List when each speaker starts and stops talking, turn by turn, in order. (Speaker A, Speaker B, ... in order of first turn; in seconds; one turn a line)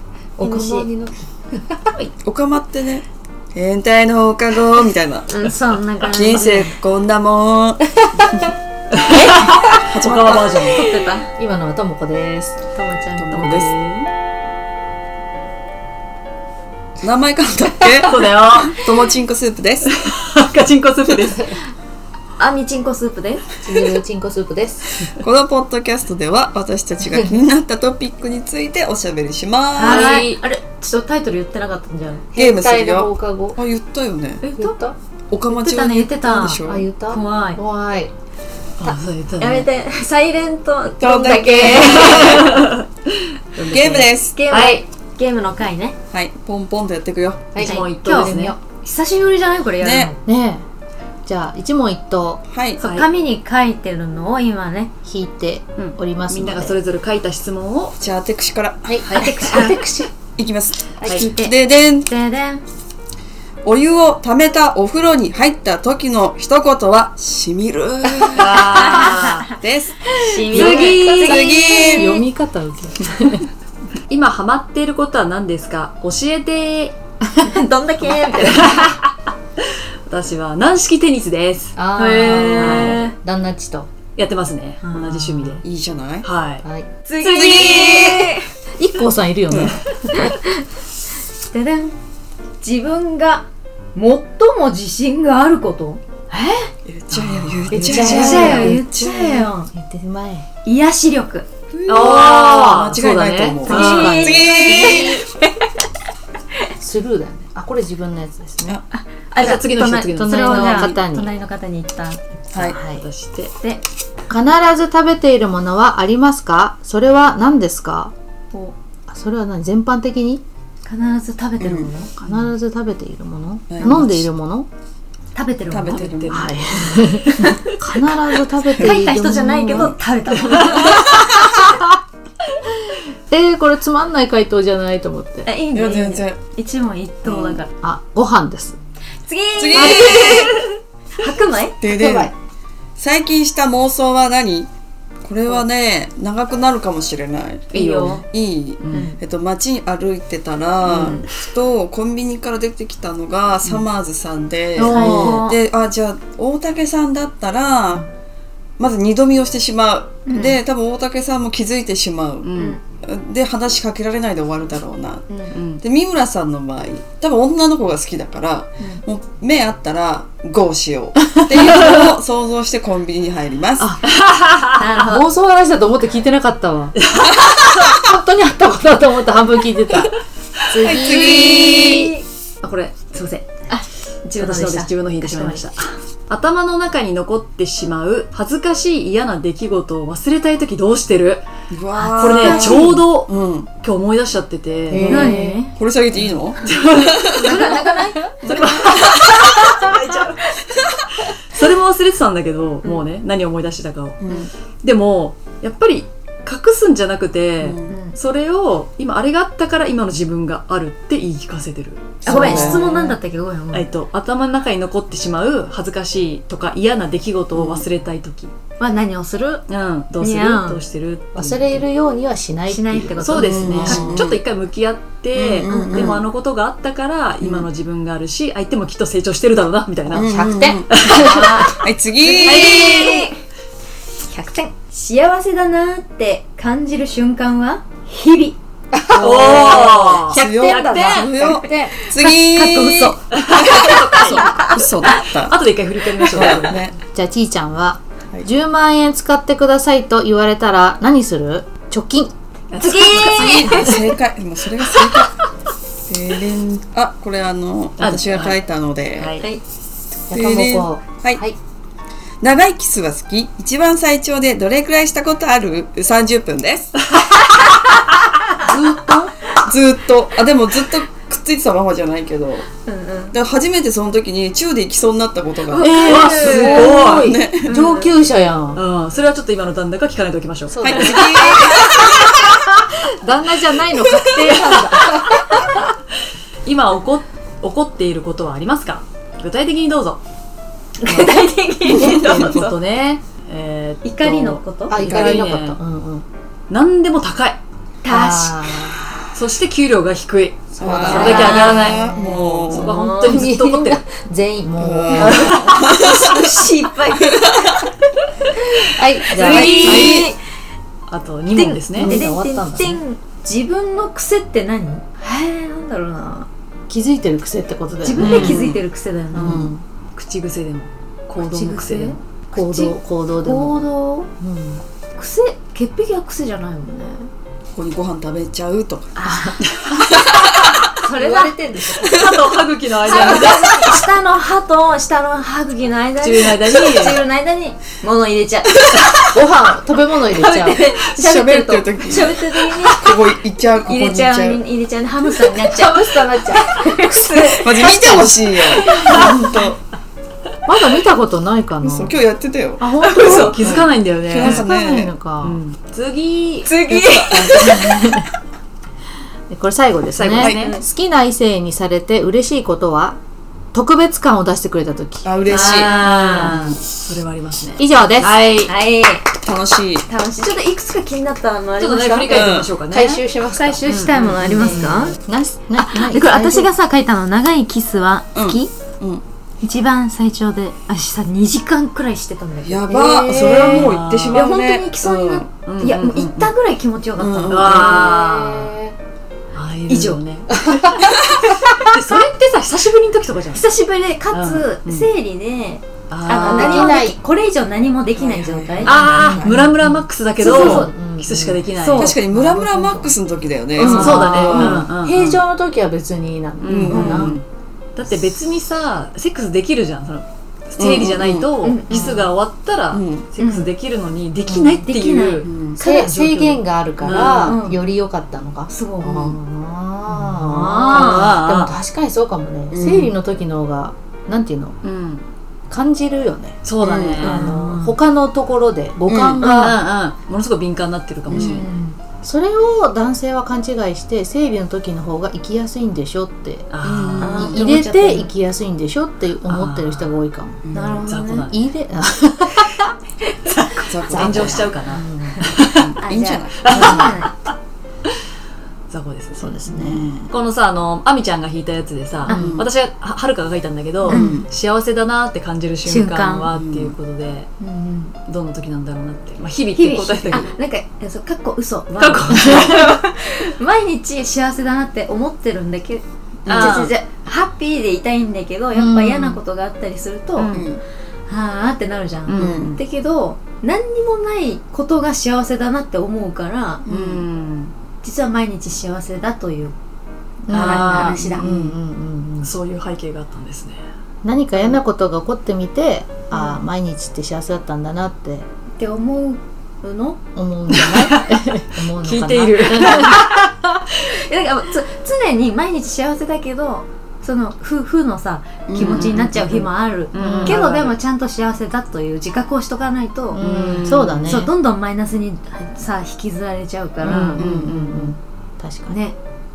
Speaker A: 0.4-1.1
Speaker B: 0.4-1.0
Speaker C: 2.2-8.5
Speaker B: 5.3-6.8
Speaker D: 8.9-10.9
Speaker B: 9.1-9.8
Speaker C: 9.4-10.9
Speaker B: 10.6-11.3
Speaker A: 11.4-13.5
Speaker C: 13.1-13.7
Speaker D: 13.3-14.1
Speaker C: 17.0-19.9
Speaker D: 18.0-18.9
Speaker D: 19.9-21.6
Speaker B: 22.4-23.5
Speaker A: 23.6-25.1
Speaker C: 25.2-30.2
Speaker B: 29.7-32.3
Speaker A: 29.8-30.4
Speaker C: 32.3-34.5
Speaker A: 32.4-33.6
Speaker B: 34.4-34.8
Speaker A: 34.4-35.0
Speaker C: 35.3-36.9
Speaker B: 35.5-37.6
Speaker A: 36.5-38.1
Speaker D: 38.8-39.7
Speaker B: 38.9-42.6
Speaker C: 41.0-42.7
Speaker D: 42.0-42.7
Speaker D: 43.5-44.8
Speaker C: 43.6-44.4
Speaker B: 44.3-46.0
Speaker C: 46.1-47.6
Speaker A: 47.5-47.8
Speaker B: 47.6-50.2
Speaker D: 47.6-48.6
Speaker C: 49.8-50.1
Speaker A: 50.2-50.7
Speaker A: 51.2-52.4
Speaker C: 52.5-52.8
Speaker B: 52.8-54.9
Speaker D: 52.8-53.1
Speaker A: 55.0-56.8
Speaker D: 55.8-58.0
Speaker C: 58.0-59.7
Speaker A: 58.9-59.7
Speaker D: 59.0-59.4
Speaker B: 59.1-60.1
Speaker C: 60.4-62.1
Speaker B: 61.0-62.6
Speaker C: 63.6-72.2
Speaker B: 68.3-69.5
Speaker D: 68.3-69.5
Speaker B: 70.2-72.2
Speaker D: 70.5-71.6
Speaker A: 71.7-73.5
Speaker D: 74.1-77.0
Speaker B: 77.3-78.9
Speaker D: 78.5-79.1
Speaker D: 80.1-83.2
Speaker A: 81.8-83.9
Speaker B: 82.3-83.1
Speaker D: 84.2-85.6
Speaker B: 84.8-85.6
Speaker C: 85.6-86.3
Speaker D: 86.2-86.7
Speaker A: 86.6-86.9
Speaker B: 87.1-88.5
Speaker C: 87.2-88.4
Speaker A: 88.8-90.3
Speaker C: 89.5-89.8
Speaker B: 91.4-92.0
Speaker B: 92.6-96.6
Speaker C: 96.9-99.5
Speaker D: 97.1-98.8
Speaker A: 97.7-98.8
Speaker B: 97.7-99.7
Speaker A: 99.7-100.5
Speaker B: 100.7-102.0
Speaker C: 101.8-105.2
Speaker D: 101.9-104.5
Speaker B: 103.6-105.7
Speaker A: 103.7-105.2
Speaker A: 106.8-108.8
Speaker B: 108.9-112.2
Speaker D: 109.4-110.9
Speaker A: 110.1-111.3
Speaker C: 112.5-112.8
Speaker A: 112.6-113.0
Speaker D: 112.6-113.5
Speaker A: 114.3-118.1
Speaker A: 119.1-120.4
Speaker B: 120.9-122.5
Speaker C: 121.6-121.9
Speaker A: 122.2-124.7
Speaker C: 123.7-124.2
Speaker B: 125.3-126.0
Speaker C: 125.7-126.6
Speaker D: 125.9-127.6
Speaker A: 126.3-129.9
Speaker C: 128.8-129.0
Speaker B: 128.8-131.2
Speaker D: 130.5-131.0
Speaker A: 130.8-131.3
Speaker A: 133.3-135.5
Speaker B: 135.5-137.7
Speaker C: 135.7-136.4
Speaker C: 137.3-137.6
Speaker A: 137.8-138.8
Speaker B: 139.3-142.3
Speaker C: 139.6-140.6
Speaker C: 141.8-142.3
Speaker C: 143.0-144.7
Speaker C: 145.2-158.1
Speaker B: 147.7-148.2
Speaker D: 148.8-149.1
Speaker B: 148.9-149.2
Speaker B: 150.9-151.3
Speaker B: 154.8-155.6
Speaker A: 154.8-155.4
Speaker D: 154.8-155.4
Speaker C: 158.8-173.9
Speaker B: 160.3-160.6
Speaker D: 162.4-162.8
Speaker B: 162.5-162.8
Speaker D: 165.5-165.8
Speaker A: 173.8-174.0
Speaker D: 174.2-174.8
Speaker B: 174.7-175.3
Speaker A: 175.0-180.1
Speaker D: 177.1-177.4
Speaker A: 180.7-182.0
Speaker C: 180.8-182.2
Speaker B: 180.9-182.2
Speaker D: 182.6-183.6
Speaker B: 183.7-185.6
Speaker D: 184.4-191.4
Speaker C: 191.7-193.7
Speaker D: 192.0-195.4
Speaker B: 192.1-193.0
Speaker A: 194.9-195.6
Speaker C: 194.9-197.8
Speaker B: 195.1-195.7
Speaker D: 196.6-213.1
Speaker B: 197.2-200.1
Speaker C: 198.5-199.1
Speaker C: 204.2-204.5
Speaker C: 207.6-208.0
Speaker B: 207.9-208.2
Speaker C: 212.2-213.1
Speaker B: 212.2-213.9
Speaker D: 213.7-218.5
Speaker C: 217.5-217.9
Speaker B: 218.8-219.7
Speaker D: 219.7-221.9
Speaker B: 220.2-220.8
Speaker A: 221.3-224.1
Speaker B: 222.7-224.2
Speaker D: 223.2-231.7
Speaker C: 223.4-224.4
Speaker C: 225.3-226.2
Speaker B: 225.7-226.2
Speaker C: 227.4-227.7
Speaker C: 230.1-233.3
Speaker A: 230.1-231.7
Speaker B: 231.0-233.4
Speaker B: 234.3-238.6
Speaker A: 238.9-240.2
Speaker D: 239.2-241.3
Speaker C: 239.2-245.6
Speaker B: 239.4-244.9
Speaker A: 241.4-241.9
Speaker D: 243.3-246.9
Speaker C: 246.3-247.0
Speaker A: 247.1-252.3
Speaker D: 252.7-253.2
Speaker B: 252.8-254.1
Speaker C: 252.8-255.4
Speaker B: 255.0-255.3
Speaker C: 256.1-259.4
Speaker D: 258.0-258.6
Speaker D: 259.1-259.4
Speaker C: 260.3-261.4
Speaker A: 260.3-261.6
Speaker C: 262.4-267.1
Speaker C: 268.6-272.7
Speaker B: 272.9-273.4
Speaker C: 273.3-277.8
Speaker A: 275.7-278.8
Speaker B: 275.8-276.7
Speaker D: 275.9-277.3
Speaker B: 277.6-278.1
Speaker D: 278.7-281.3
Speaker A: 280.7-285.6
Speaker C: 280.8-282.2
Speaker B: 281.5-282.1
Speaker D: 285.0-285.8
Speaker D: 286.6-290.2
Speaker B: 291.0-292.8
Speaker C: 291.1-292.6
Speaker D: 291.9-295.8
Speaker B: 294.0-295.1
Speaker A: 294.9-296.3
Speaker C: 295.0-295.4
Speaker D: 296.7-297.6
Speaker B: 298.0-299.0
Speaker A: 298.1-299.3
Speaker D: 299.3-302.1
Speaker A: 300.7-305.6
Speaker C: 300.8-302.9
Speaker B: 301.0-302.1
Speaker D: 302.7-304.0
Speaker B: 302.7-303.5
Speaker C: 304.8-306.6
Speaker B: 305.1-307.8
Speaker C: 307.4-307.8
Speaker B: 308.7-310.4
Speaker A: 308.8-310.3
Speaker C: 309.4-310.3
Speaker D: 309.5-310.1
Speaker D: 311.1-312.2
Speaker B: 311.5-316.5
Speaker A: 311.9-313.0
Speaker A: 316.9-318.7
Speaker B: 318.0-319.7
Speaker D: 318.2-318.7
Speaker C: 318.2-318.7
Speaker A: 319.3-319.8
Speaker D: 319.3-322.2
Speaker B: 321.4-324.3
Speaker A: 322.5-324.8
Speaker B: 325.1-327.3
Speaker C: 327.7-329.1
Speaker B: 329.2-329.6
Speaker A: 329.3-329.6
Speaker C: 330.1-330.8
Speaker B: 330.5-332.2
Speaker A: 331.2-332.3
Speaker D: 332.1-333.9
Speaker B: 333.1-339.3
Speaker D: 336.2-337.2
Speaker A: 339.3-340.8
Speaker B: 340.3-343.2
Speaker C: 341.0-344.6
Speaker B: 343.8-349.5
Speaker A: 346.0-346.5
Speaker C: 347.4-349.8
Speaker A: 349.1-349.6
Speaker A: 350.7-352.2
Speaker C: 351.8-355.1
Speaker D: 352.8-354.7
Speaker A: 352.8-355.6
Speaker D: 355.4-356.7
Speaker B: 356.6-358.2
Speaker C: 356.9-357.9
Speaker A: 357.6-358.3
Speaker A: 359.5-363.2
Speaker D: 360.1-360.8
Speaker B: 360.4-360.8
Speaker A: 363.7-366.6
Speaker C: 365.2-366.1
Speaker D: 365.5-368.8
Speaker B: 365.6-366.6
Speaker A: 367.8-368.5
Speaker B: 368.6-369.3
Speaker C: 369.4-370.1
Speaker B: 370.1-372.5
Speaker D: 371.8-373.2
Speaker C: 372.3-372.7
Speaker A: 372.9-373.9
Speaker B: 373.5-375.2
Speaker D: 373.9-375.1
Speaker A: 374.5-376.7
Speaker B: 375.8-378.7
Speaker C: 378.4-379.2
Speaker B: 379.6-382.9
Speaker C: 382.6-385.5
Speaker A: 382.9-383.9
Speaker D: 383.3-384.4
Speaker B: 384.3-388.0
Speaker D: 385.7-386.5
Speaker C: 387.2-388.1
Speaker D: 387.5-388.8
Speaker A: 387.6-389.0
Speaker D: 389.5-391.0
Speaker B: 389.9-390.2
Speaker A: 390.7-391.0
Speaker D: 391.6-393.7
Speaker B: 393.5-399.2
Speaker D: 394.3-395.1
Speaker D: 396.1-397.0
Speaker A: 396.2-397.2
Speaker C: 398.1-399.7
Speaker D: 398.9-402.1
Speaker A: 398.9-401.7
Speaker C: 400.4-400.8
Speaker B: 400.4-400.9
Speaker B: 401.8-402.2
Speaker C: 402.0-404.9
Speaker A: 402.3-403.1
Speaker A: 403.8-407.4
Speaker D: 403.8-405.4
Speaker B: 403.9-404.2
Speaker D: 406.6-407.4
Speaker C: 406.7-407.4
Speaker B: 406.9-407.3
Speaker D: 408.0-417.6
Speaker C: 410.8-412.3
Speaker B: 411.6-412.3
Speaker C: 412.9-413.3
Speaker B: 413.4-413.7
Speaker A: 414.4-414.9
Speaker B: 414.8-415.5
Speaker C: 415.4-415.8
Speaker A: 415.8-424.8
Speaker B: 417.1-417.8
Speaker B: 418.7-419.4
Speaker D: 420.1-421.7
Speaker B: 420.5-421.3
Speaker C: 422.7-423.1
Speaker D: 424.8-425.3
Speaker A: 425.7-426.6
Speaker D: 426.6-427.9
Speaker C: 426.8-427.3
Speaker A: 427.2-429.8
Speaker B: 427.3-427.7
Speaker C: 429.1-429.4
Speaker B: 429.4-429.8
Speaker D: 429.5-431.6
Speaker C: 431.3-431.6
Speaker B: 431.3-432.0
Speaker A: 432.2-440.7
Speaker D: 436.7-437.6
Speaker C: 436.9-437.5
Speaker B: 437.2-438.3
Speaker D: 439.5-440.1
Speaker C: 440.7-441.0
Speaker B: 440.7-441.5
Speaker D: 441.0-441.7
Speaker A: 441.5-442.9
Speaker B: 443.5-443.8
Speaker C: 443.8-444.8
Speaker A: 444.1-445.5
Speaker D: 444.1-445.9
Speaker C: 445.7-447.1
Speaker B: 446.0-447.4
Speaker D: 446.6-447.5
Speaker A: 446.7-447.1
Speaker D: 448.9-457.5
Speaker A: 449.4-450.3
Speaker B: 452.3-452.5
Speaker A: 452.3-452.6
Speaker C: 452.3-452.7
Speaker C: 454.1-454.5
Speaker B: 454.1-454.5
Speaker B: 455.9-456.5
Speaker C: 456.5-456.9
Speaker B: 457.6-458.1
Speaker D: 458.3-460.5
Speaker B: 459.7-470.6
Speaker D: 461.9-463.0
Speaker A: 462.4-462.7
Speaker C: 466.5-466.9
Speaker D: 466.5-466.9
Speaker A: 468.7-469.4
Speaker D: 470.4-470.7
Speaker C: 470.5-470.8
Speaker B: 471.3-476.9
Speaker D: 472.3-472.8
Speaker C: 472.4-472.8
Speaker C: 476.9-477.2
Speaker D: 476.9-477.8
Speaker B: 478.0-479.8
Speaker A: 480.4-482.5
Speaker B: 480.5-481.5
Speaker D: 480.5-481.8
Speaker D: 482.4-483.8
Speaker A: 484.2-488.5
Speaker B: 486.3-486.6
Speaker B: 488.8-490.2
Speaker A: 490.4-493.3
Speaker D: 490.8-491.3
Speaker D: 492.0-493.3
Speaker B: 494.0-503.4
Speaker C: 498.7-499.4
Speaker D: 498.8-500.9
Speaker A: 500.1-500.6
Speaker D: 503.4-504.4
Speaker A: 503.4-504.5
Speaker B: 504.3-507.4
Speaker D: 507.0-508.1
Speaker A: 507.1-509.0
Speaker B: 508.9-509.2